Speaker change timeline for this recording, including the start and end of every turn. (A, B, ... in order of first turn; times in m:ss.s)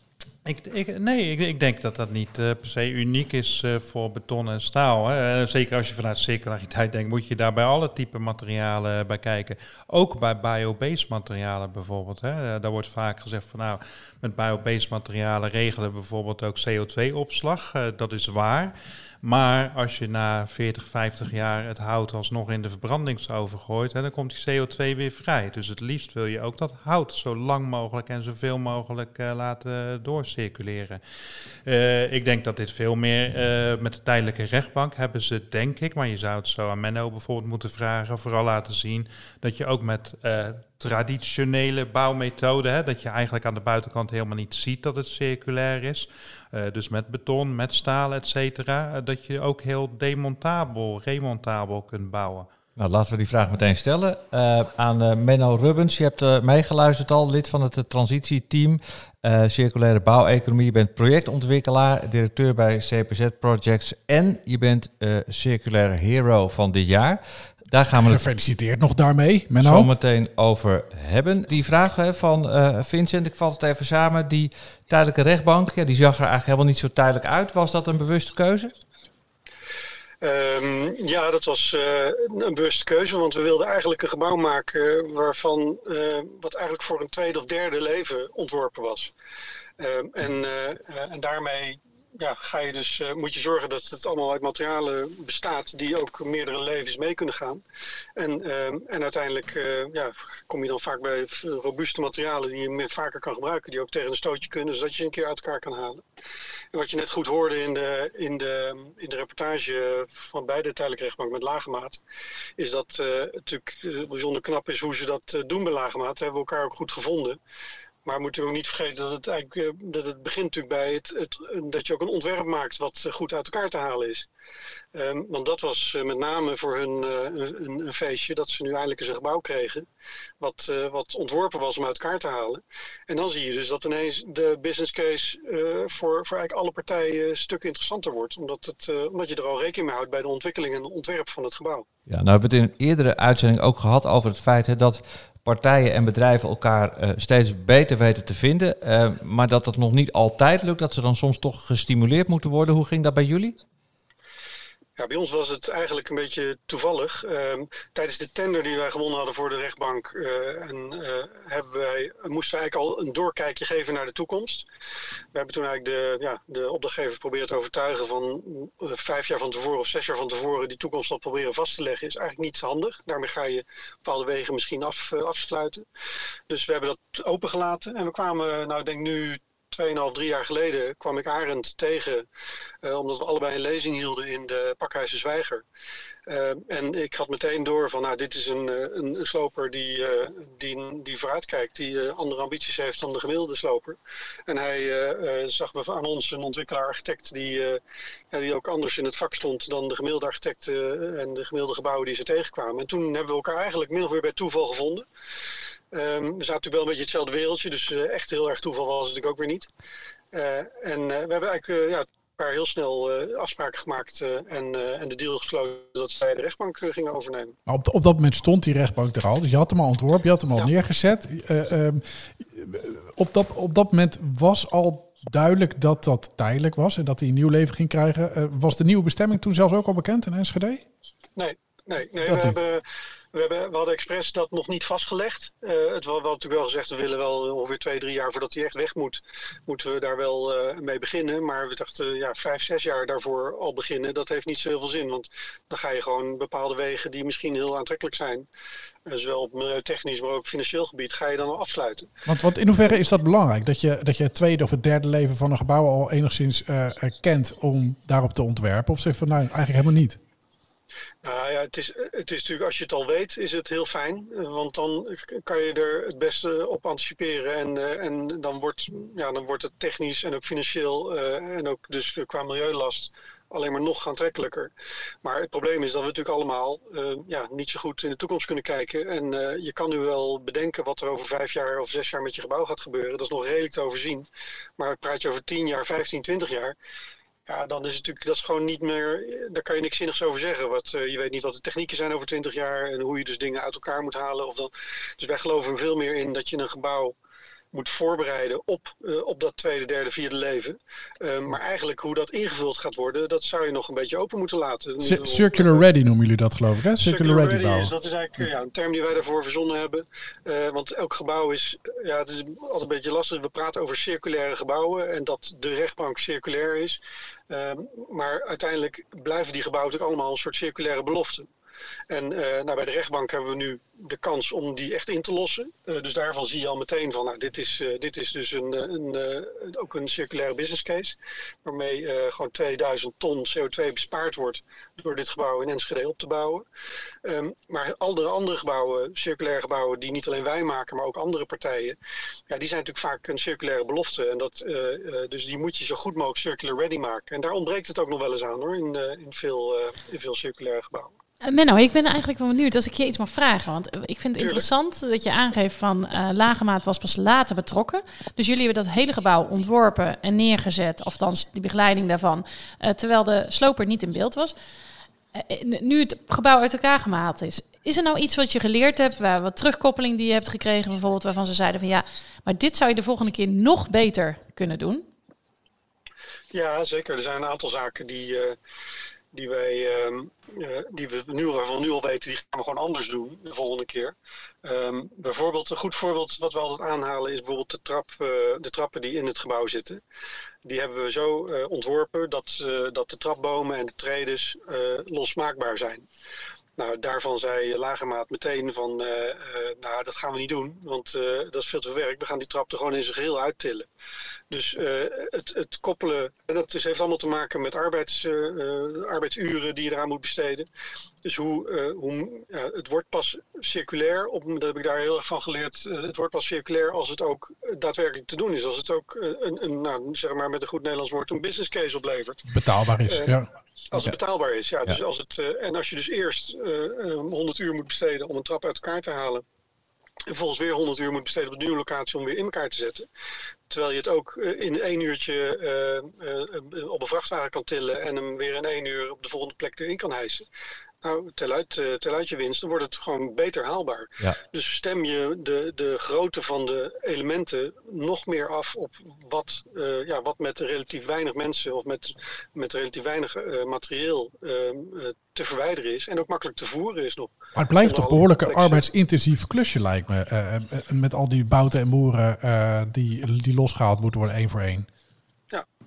0:00.4-0:31.0 A
0:31.6-0:52.5 A
0:52.8-1:08.2 B
1:08.0-1:09.9 C
1:09.6-1:18.7 B
1:20.2-1:29.1 D
1:29.8-1:37.6 D
1:38.2-1:46.0 D
1:46.7-1:52.0 D
1:52.6-1:57.4 D
1:58.0-2:04.3 D
2:04.9-2:09.9 D
2:10.4-2:21.8 D
2:22.1-2:33.6 B
2:35.0-2:44.6 D
2:45.3-2:55.8 D
2:56.5-3:02.2 D
3:02.8-3:05.6 D
3:06.3-3:25.0 D
3:25.9-3:29.7 D
3:30.3-3:37.6 D
3:37.6-3:50.8 C
3:51.4-4:08.5 D
3:52.2-3:52.6 C
4:09.0-4:12.1 D
4:12.2-4:20.2 C
4:21.2-4:34.7 D
4:35.2-4:46.8 D
4:47.5-4:57.2 D
4:57.7-5:05.8 D
5:05.0-5:08.4 C
5:07.0-5:21.5 D
5:22.1-5:36.6 D
5:37.2-5:42.0 D
5:42.5-5:51.1 D
5:51.4-6:04.5 E
5:54.4-5:54.6 D
6:05.3-6:15.0 E
6:16.5-6:18.6 D
6:19.3-6:30.0 D
6:30.6-6:36.1 D
6:36.8-6:43.9 D
6:44.5-6:50.7 D
6:51.2-7:02.4 D
7:02.5-7:03.5 C
7:03.1-7:03.3 D
7:03.9-7:09.4 D
7:10.3-7:13.1 D
7:13.7-7:20.5 D
7:21.0-7:38.8 D
7:37.6-7:44.9 C